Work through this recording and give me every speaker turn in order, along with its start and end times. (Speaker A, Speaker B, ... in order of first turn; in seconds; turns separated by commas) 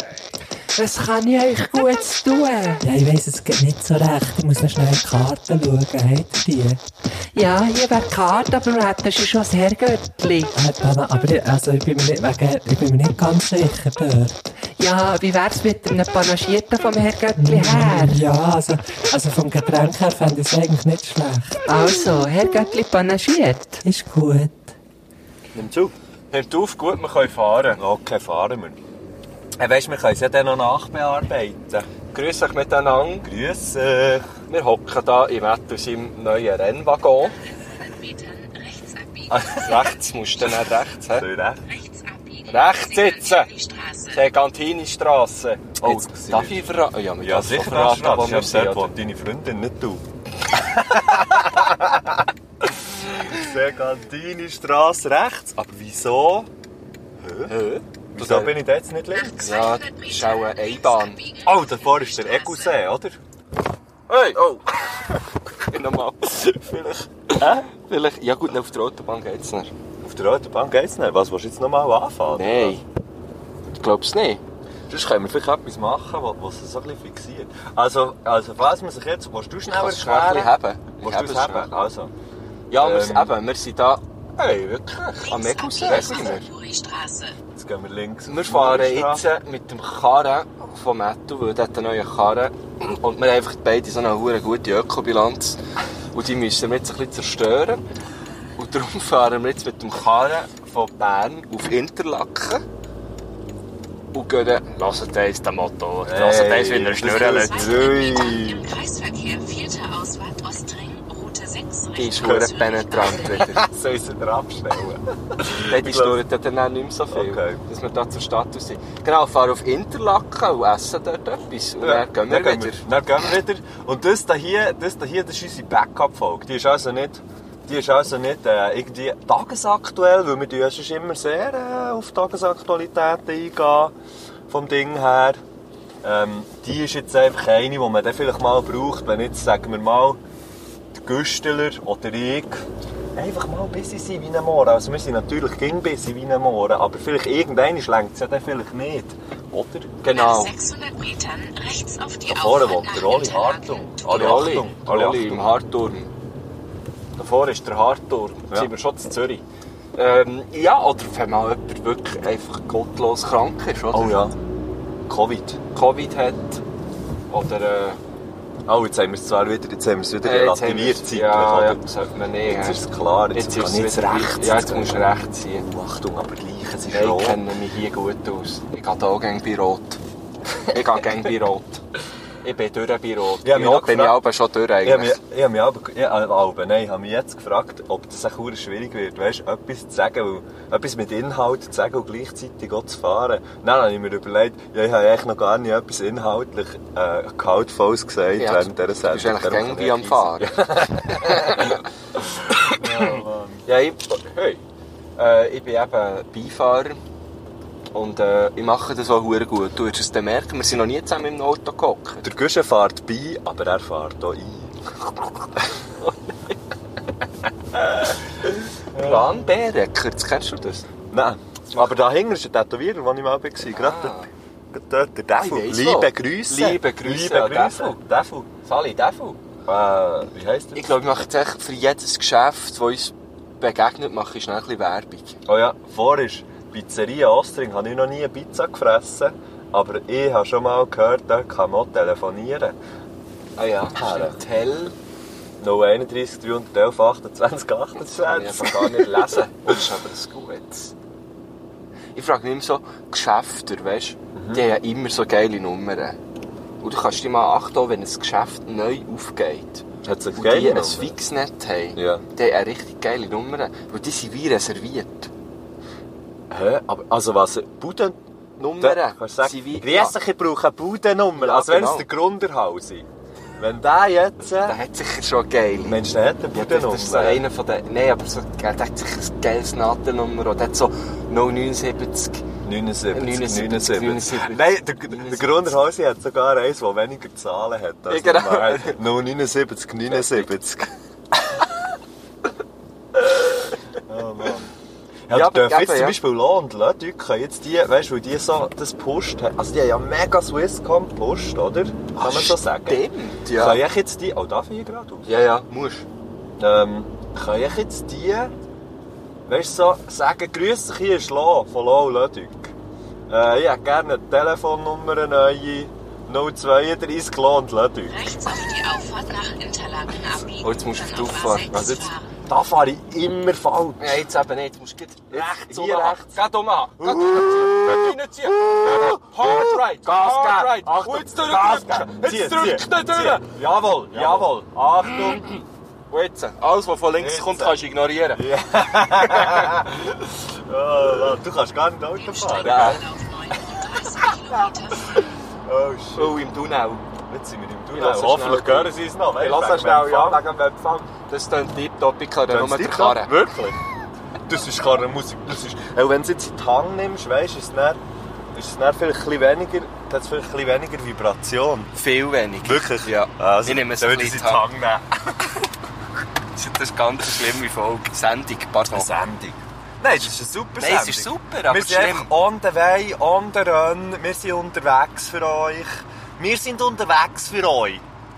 Speaker A: 0.8-2.8, Speaker B: 2.8-6.8, Speaker A: 7.3-10.5, Speaker B: 10.5-14.6, Speaker A: 14.8-18.3, Speaker B: 17.3-21.8, Speaker A: 21.7-23.8, Speaker B: 23.8-24.7, Speaker C: 25.5-25.9, Speaker D: 26.3-27.8, Speaker C: 27.8-28.8, Speaker C: 29.6-31.9, Speaker D: 32.1-33.3, Speaker C: 33.2-34.3, Speaker D: 34.5-37.4, Speaker E: 37.5-40.0, Speaker C: 39.3-39.7, Speaker D: 39.5-41.3, Speaker C: 41.1-41.6, Speaker E: 41.7-44.2, Speaker D: 42.5-43.5, Speaker D: 44.1-48.9, Speaker C: 45.8-46.6, Speaker C: 47.2-56.5, Speaker C: 57.2-57.5, Speaker D: 57.5-58.5, Speaker C: 58.1-59.5, Speaker E: 59.1-62.8, Speaker D: 59.4-61.2, Speaker C: 61.4-63.2, Speaker D: 64.1-64.6, Speaker D: 65.7-69.7, Speaker C: 67.3-67.7, Speaker C: 70.0-72.8, Speaker D: 72.3-72.8, Speaker D: 73.7-74.4, Speaker C: 74.9-82.1, Speaker D: 79.7-81.7, Speaker D: 82.7-86.5, Speaker C: 82.8-83.3, Speaker E: 85.2-87.3, Speaker C: 87.5-89.2, Speaker D: 88.2-95.6, Speaker D: 96.1-97.8, Speaker D: 98.6-102.6, Speaker D: 104.1-107.8, Speaker C: 106.0-108.7, Speaker E: 107.1-113.6, Speaker D: 111.9-113.7, Speaker C: 112.2-112.5, Speaker C: 113.5-116.2, Speaker D: 114.7-122.8, Speaker C: 117.1-117.6, Speaker C: 121.8-133.9, Speaker C: 134.5-135.4, Speaker C: 136.0-140.2, Speaker C: 141.0-149.9, Speaker D: 150.0-150.5, Speaker E: 150.1-154.5, Speaker C: 152.2-155.5, Speaker D: 154.1-156.1, Speaker D: 157.2-159.4, Speaker D: 159.9-164.2, Speaker C: 163.9-164.3, Speaker C: 165.1-165.6, Speaker D: 165.7-166.6, Speaker D: 167.3-168.0, Speaker C: 168.7-171.8, Speaker D: 170.2-175.7, Speaker C: 172.5-177.4, Speaker D: 176.9-180.0, Speaker D: 180.7-181.8, Speaker D: 182.4-185.2, Speaker C: 183.4-184.2, Speaker C: 184.8-201.8, Speaker D: 198.4-204.6, Speaker C: 202.6-203.7, Speaker D: 205.2-207.0, Speaker D: 207.9-212.2, Speaker C: 212.2-214.7, Speaker D: 218.9-220.9, Speaker C: 218.9-219.3, Speaker C: 221.1-228.5, Speaker D: 223.7-224.3, Speaker D: 225.3-228.0, Speaker D: 228.6-229.4, Speaker C: 229.7-231.0, Speaker D: 230.7-235.4, Speaker C: 235.4-242.8, Speaker D: 243.6-244.9, Speaker C: 243.9-244.4, Speaker C: 245.6-249.8, Speaker D: 248.0-250.9, Speaker D: 252.1-256.2, Speaker C: 254.3-254.6, Speaker D: 256.8-259.8, Speaker C: 260.0-261.1, Speaker D: 260.4-265.3, Speaker C: 261.9-262.2, Speaker C: 266.5-273.1, Speaker D: 268.6-270.1, Speaker D: 271.4-272.1, Speaker C: 273.6-274.8, Speaker D: 274.6-276.0, Speaker C: 275.8-277.4, Speaker D: 276.5-282.4, Speaker C: 282.6-291.7, Speaker D: 283.1-285.7, Speaker D: 288.1-289.0, Speaker D: 290.1-290.5, Speaker C: 294.0-294.7, Speaker C: 295.3-305.3, Speaker D: 295.3-296.2, Speaker D: 302.1-303.8, Speaker D: 305.2-306.1, Speaker C: 306.6-308.5, Speaker C: 309.4-312.7, Speaker C: 313.3-318.4, Speaker E: 318.1-322.3, Speaker D: 320.6-322.1, Speaker C: 322.4-324.2, Speaker D: 324.0-334.5, Speaker C: 325.3-326.3, Speaker C: 327.0-335.4, Speaker D: 336.1-338.4, Speaker C: 337.2-337.8, Speaker C: 338.3-343.1, Speaker D: 339.4-339.7, Speaker E: 342.1-345.2, Speaker D: 342.6-343.1, Speaker C: 345.1-346.4, Speaker D: 346.1-347.1, Speaker C: 347.3-350.4, Speaker D: 347.9-353.3, Speaker C: 352.5-353.8, Speaker C: 354.5-358.0, Speaker C: 358.5-361.9, Speaker D: 361.9-364.6, Speaker C: 362.6-365.6, Speaker D: 366.5-369.1, Speaker C: 368.9-378.0, Speaker D: 370.1-372.3